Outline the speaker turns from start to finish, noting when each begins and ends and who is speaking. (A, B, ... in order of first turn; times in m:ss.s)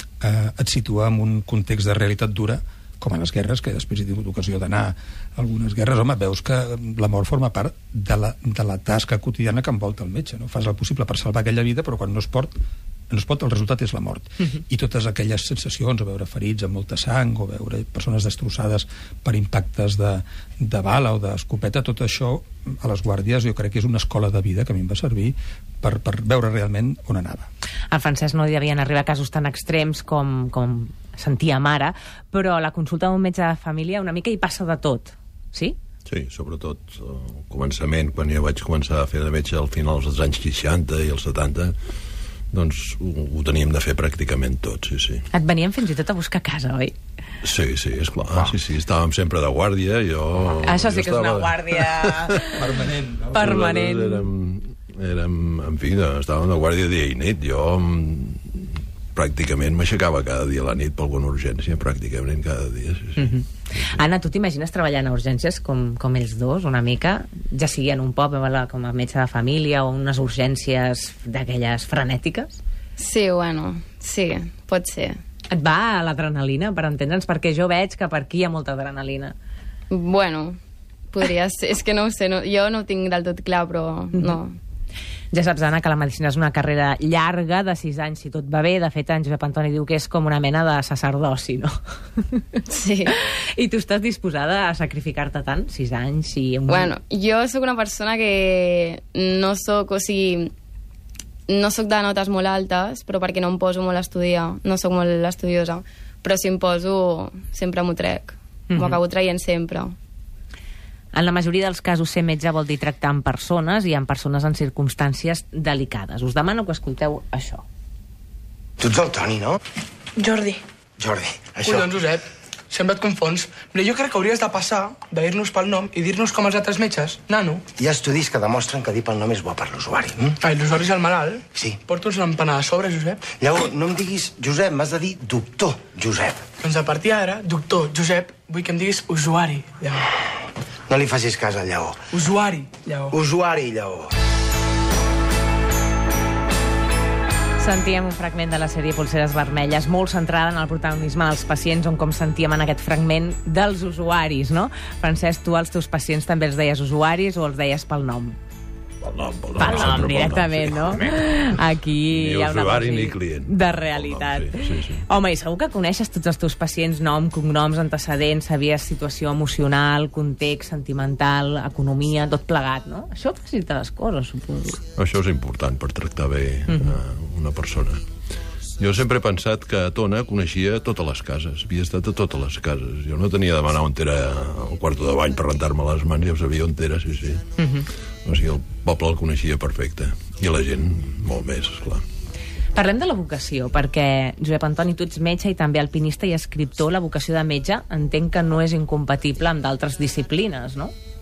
0:00.2-0:12.5 A
0:13.1-0:27.4 A
0:27.9-0:35.8 B
0:36.1-0:41.7 C
0:42.5-0:45.2 C
0:45.3-0:46.9 B
0:47.4-0:52.5 C
0:50.6-0:52.6 B
0:52.5-0:53.6 A
0:53.3-0:54.2 B
0:53.3-1:03.4 C
1:03.2-1:12.6 B
1:13.0-1:15.2 D
1:15.5-1:19.3 B
1:19.9-1:20.6 D
1:21.1-1:24.6 D
1:25.3-1:32.4 B
1:32.7-1:33.1 D
1:33.5-1:36.9 B
1:36.7-1:40.5 D
1:41.5-1:49.9 D
1:48.7-1:49.0 B
1:51.1-1:57.6 B
1:58.8-1:59.6 E
2:00.2-2:00.6 F
2:01.0-2:01.9 E
2:01.6-2:07.6 F
2:07.8-2:10.3 E
2:10.4-2:13.2 F
2:13.3-2:16.4 E
2:16.6-2:20.0 F
2:20.9-2:22.0 E
2:22.1-2:23.2 F
2:23.1-2:24.1 E
2:27.6-2:38.4 B
2:39.0-2:41.2 C
2:39.6-2:54.8 B
2:42.1-2:45.0 C
2:55.0-2:58.0 C
2:58.8-3:07.4 C
3:07.6-3:07.8 B
3:08.2-3:12.0 C
3:12.7-3:20.9 B